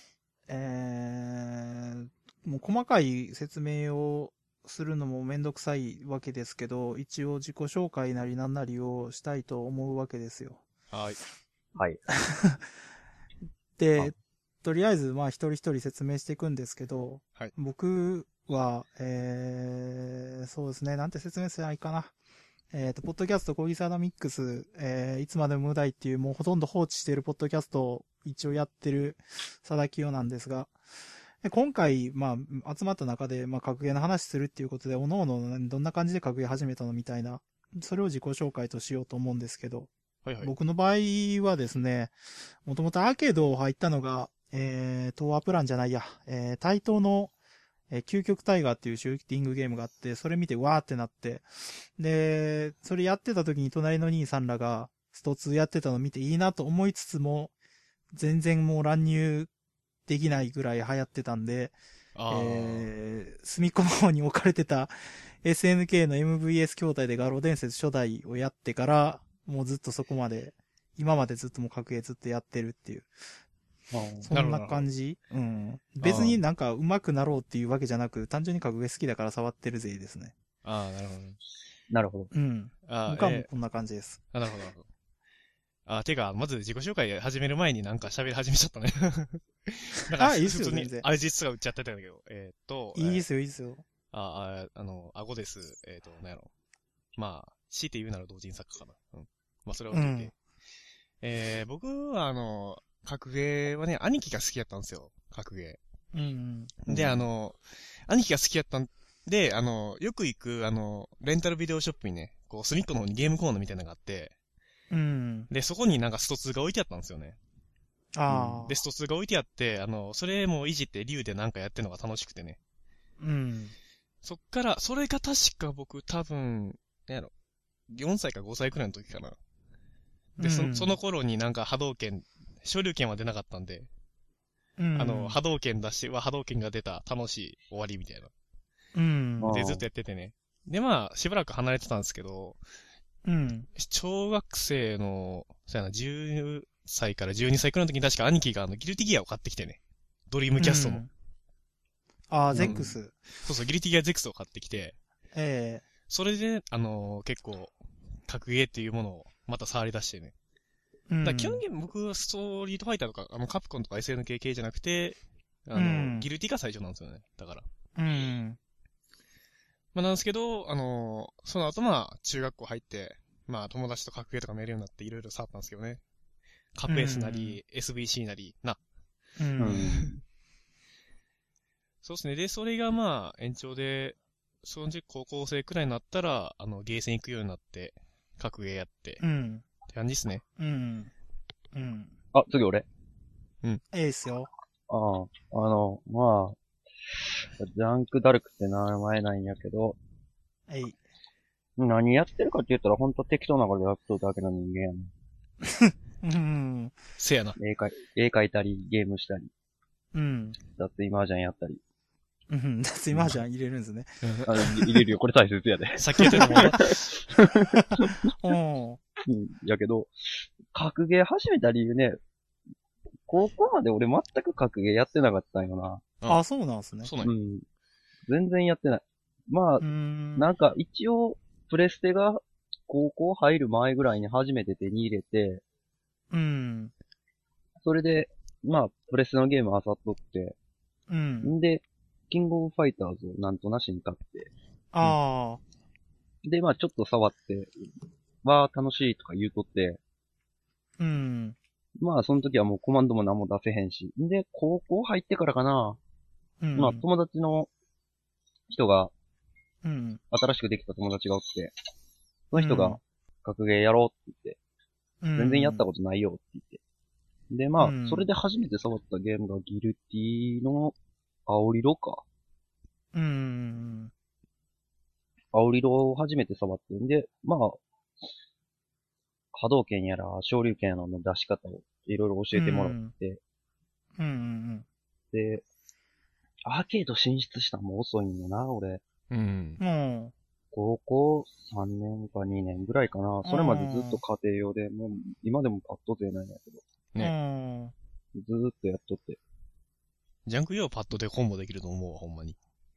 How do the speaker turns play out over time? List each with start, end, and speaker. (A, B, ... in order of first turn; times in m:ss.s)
0:00.5-0:10.6 A
0:10.9-0:11.2 B
0:11.8-0:12.0 C
0:12.1-0:12.6 A
0:13.8-0:22.1 A
0:22.7-0:30.7 A
0:31.4-0:39.9 A
0:40.2-0:40.5 B
0:40.4-0:42.1 A
0:42.6-0:47.3 A
0:47.9-0:51.5 A
0:52.0-0:57.5 A
0:58.1-0:59.5 A
1:00.1-1:01.8 A
1:02.2-1:02.9 B
1:02.3-1:13.1 A
1:13.9-1:14.3 C
1:14.3-1:20.3 A
1:14.3-1:14.9 B
1:16.0-1:16.4 B
1:20.6-1:21.4 B
1:21.9-1:22.3 C
1:22.3-1:24.2 A
1:22.9-1:23.5 B
1:24.3-1:24.9 B
1:25.9-1:33.2 B
1:30.1-1:31.0 A
1:33.0-1:33.8 A
1:34.1-1:36.5 B
1:37.2-1:40.3 B
1:39.9-1:40.3 A
1:41.2-1:45.8 B
1:46.1-1:46.8 A
1:46.9-1:54.3 B
1:46.9-1:47.3 C
1:54.9-1:55.5 A
1:55.5-1:57.4 B
1:58.2-1:58.8 A
1:58.3-2:02.6 B
2:03.2-2:03.8 A
2:04.2-2:07.3 B
2:07.9-2:09.4 B
2:10.4-2:11.0 A
2:10.4-2:13.9 B
2:14.8-2:15.4 A
2:15.0-2:18.3 B
2:19.0-2:19.5 A
2:19.4-2:19.8 C
2:19.5-2:22.6 B
2:23.2-2:23.7 A
2:23.8-2:31.0 B
2:30.6-2:31.1 A
2:32.3-2:33.2 A
2:32.5-2:35.0 B
2:35.4-2:35.9 A
2:36.1-2:37.7 B
2:38.3-2:40.3 B
2:41.1-2:41.6 A
2:41.2-2:47.6 B
2:45.8-2:46.3 A
2:48.0-2:48.6 A
2:49.9-2:56.0 B
2:56.8-2:58.8 B
2:56.9-2:57.6 A
2:59.4-2:59.9 A
2:59.6-3:00.2 C
3:02.0-3:09.2 B
3:09.2-3:09.6 A
3:09.9-3:10.4 B
3:10.6-3:11.1 A
3:11.7-3:12.1 A
3:12.3-3:12.9 C
3:13.9-3:14.5 A
3:14.9-3:16.6 C
3:17.1-3:20.0 C
3:20.7-3:21.0 A
3:21.8-3:25.1 C
3:25.7-3:26.9 A
3:27.2-3:27.6 B
3:27.6-3:29.5 C
3:30.1-3:30.6 A
3:30.8-3:31.8 C
3:32.5-3:34.6 A
3:34.2-3:34.7 B
3:34.5-3:38.1 C
3:36.0-3:36.9 B
3:36.2-3:37.1 A
3:37.7-3:39.0 A
3:39.2-3:42.2 C
3:43.3-3:46.0 C
3:46.3-3:47.1 A
3:47.0-3:47.3 B
3:47.2-3:47.7 C
3:48.3-3:55.6 C
3:49.8-3:50.5 A
3:56.3-3:56.9 A
3:57.8-4:00.6 C
4:01.1-4:01.5 A
4:01.4-4:04.5 C
4:04.9-4:05.6 A
4:06.4-4:07.8 C
4:08.4-4:10.0 C
4:11.0-4:11.6 A
4:12.0-4:16.0 C
4:16.6-4:17.0 A
4:16.8-4:17.7 C
4:18.7-4:19.1 C
4:19.8-4:20.2 A
4:20.3-4:21.8 C
4:22.5-4:24.6 C
4:22.6-4:23.0 A
4:25.2-4:25.8 A
4:25.4-4:26.8 C
4:27.5-4:31.0 C
4:27.8-4:28.3 A
4:31.5-4:32.2 C
4:33.1-4:34.1 A
4:35.5-4:37.8 C
4:39.5-4:43.4 C
4:42.5-4:43.1 A
4:44.2-4:44.9 A
4:45.3-4:45.6 C
4:46.7-4:49.0 C
4:49.3-4:49.8 B
4:49.8-4:50.3 A
4:50.7-4:56.8 C
4:53.4-4:54.2 A
4:57.2-4:57.9 A
4:58.4-4:59.4 C
5:00.5-5:02.6 B